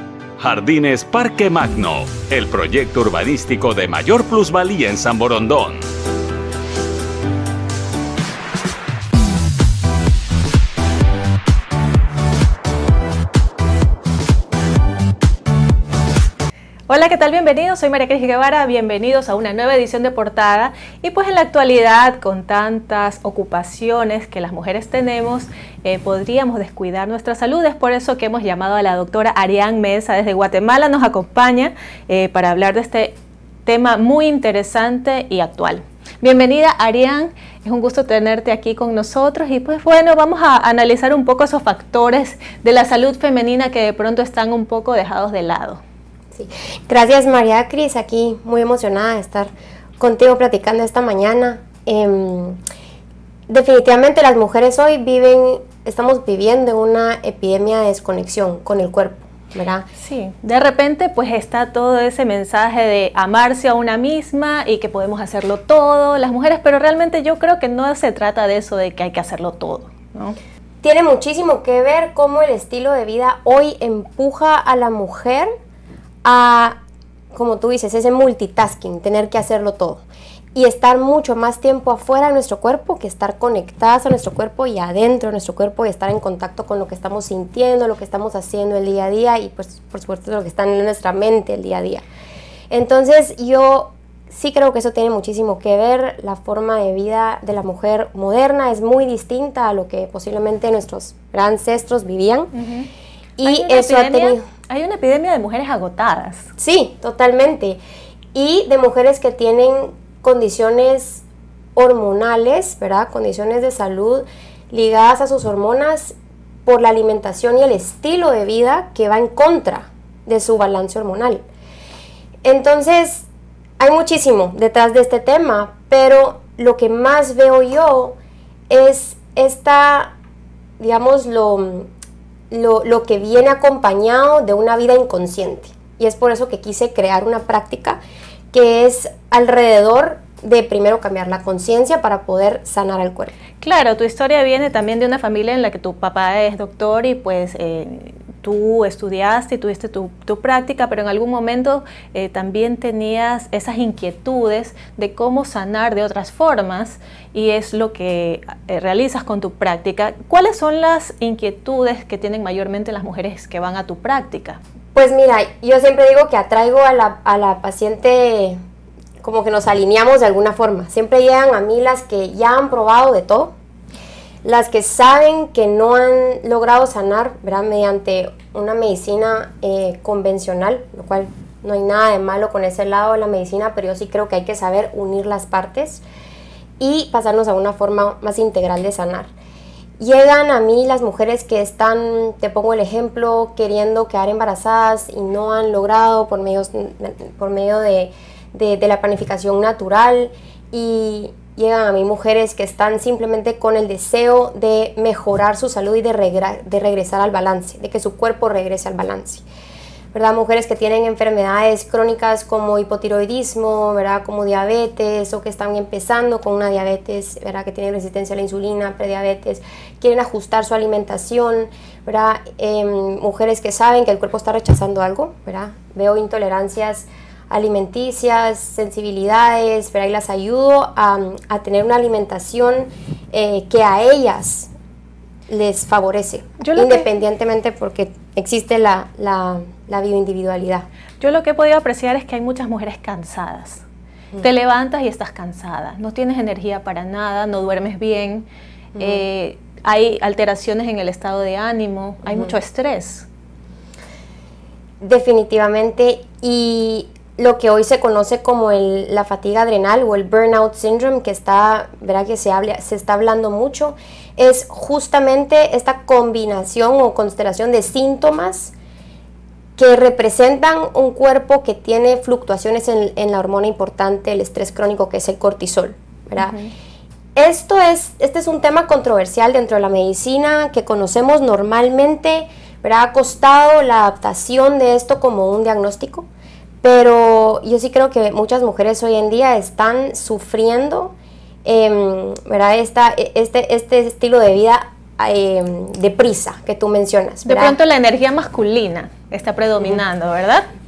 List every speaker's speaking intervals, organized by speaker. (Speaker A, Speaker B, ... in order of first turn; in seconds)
Speaker A: 0.4-5.9
Speaker B: 16.9-33.1, 33.7-45.8, 60.0-70.4, 102.5-102.9, 103.4-106.5, 143.6-164.6, 236.6-237.1, 241.2-243.8, 244.4-248.5, 249.0-253.3, 276.4-276.7, 297.5-300.7
Speaker C: 46.3-52.6, 53.5-59.9, 70.8-75.5, 76.2-76.8, 77.3-80.0, 80.5-92.0, 92.7-102.5, 103.4-104.4, 106.6-107.8, 108.3-111.2, 111.8-121.4, 122.4-123.3, 123.8-128.2, 128.7-130.1, 130.8-131.9, 132.5-138.0, 138.5-143.3, 164.9-168.6, 169.2-173.5, 174.4-186.0, 186.8-189.3, 190.0-209.4, 210.1-234.7, 235.5-240.9, 249.0-249.2, 255.0-268.7, 269.8-276.6, 277.4-286.3, 286.8-291.1, 291.6-297.8